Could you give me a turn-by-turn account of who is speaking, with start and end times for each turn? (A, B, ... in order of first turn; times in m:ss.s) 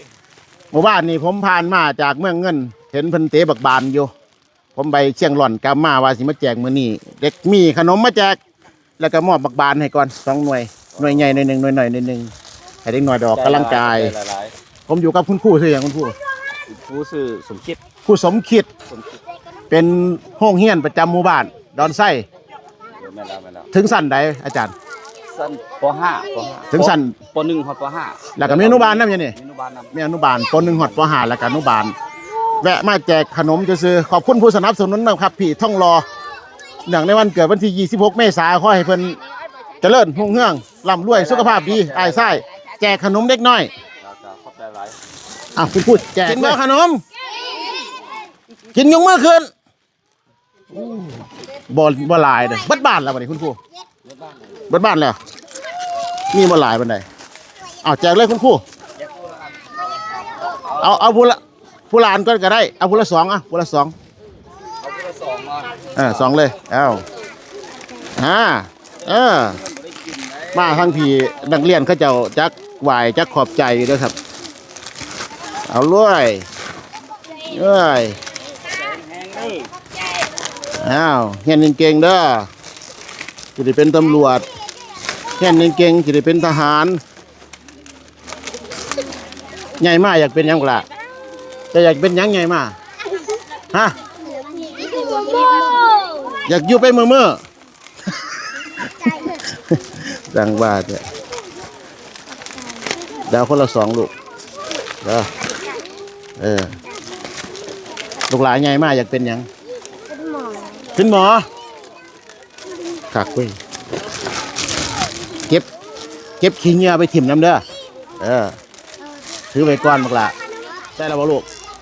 0:00.7-0:04.1 A
0:04.8-0:08.4 A
0:09.0-0:12.3 A
0:10.9-0:11.4 B
0:12.8-0:14.1 A
0:13.3-0:14.5 B
0:14.9-0:16.2 A
0:16.7-0:17.8 B
0:18.0-0:18.7 A
0:18.9-0:19.2 B
0:19.7-0:22.2 A
0:23.0-0:23.7 B
0:23.7-0:24.7 A
0:25.3-0:29.9 B
0:26.7-0:27.2 A
0:28.4-0:29.3 A
0:29.9-0:31.9 A
0:32.6-0:36.0 A
0:36.8-0:39.2 A
0:39.8-0:43.7 A
0:41.0-0:42.4 B
0:44.0-0:45.0 B
0:45.6-0:47.0 A
0:46.3-0:46.6 B
0:48.7-0:49.5 A
0:50.7-0:51.2 A
0:51.7-0:53.6 A
0:54.0-0:54.6 B
0:54.7-0:55.2 A
0:56.3-0:57.0 A
0:57.8-0:58.6 A
0:59.0-1:01.0 B
1:00.8-1:01.4 A
1:01.9-1:03.9 A
1:04.8-1:06.4 B
1:06.0-1:07.0 A
1:08.2-1:09.6 A
1:09.4-1:11.1 B
1:10.5-1:14.1 A
1:15.7-1:16.4 A
1:17.5-1:18.2 A
1:18.6-1:19.7 B
1:20.8-1:22.5 A
1:23.6-1:24.4 A
1:25.4-1:27.0 A
1:29.8-1:30.8 A
1:31.7-1:32.7 A
1:34.0-1:36.5 C
1:36.4-1:37.4 A
1:38.8-1:39.4 C
1:39.7-1:41.0 A
1:42.5-1:42.9 C
1:43.3-1:44.1 A
1:45.0-1:45.3 A
1:45.4-1:45.8 C
1:46.4-1:46.7 A
1:48.3-1:49.5 A
1:50.1-1:51.0 C
1:51.0-1:51.4 A
1:53.1-1:53.6 A
1:56.4-1:57.6 A
1:58.2-1:58.6 A
1:59.5-2:00.3 A
2:01.0-2:01.4 A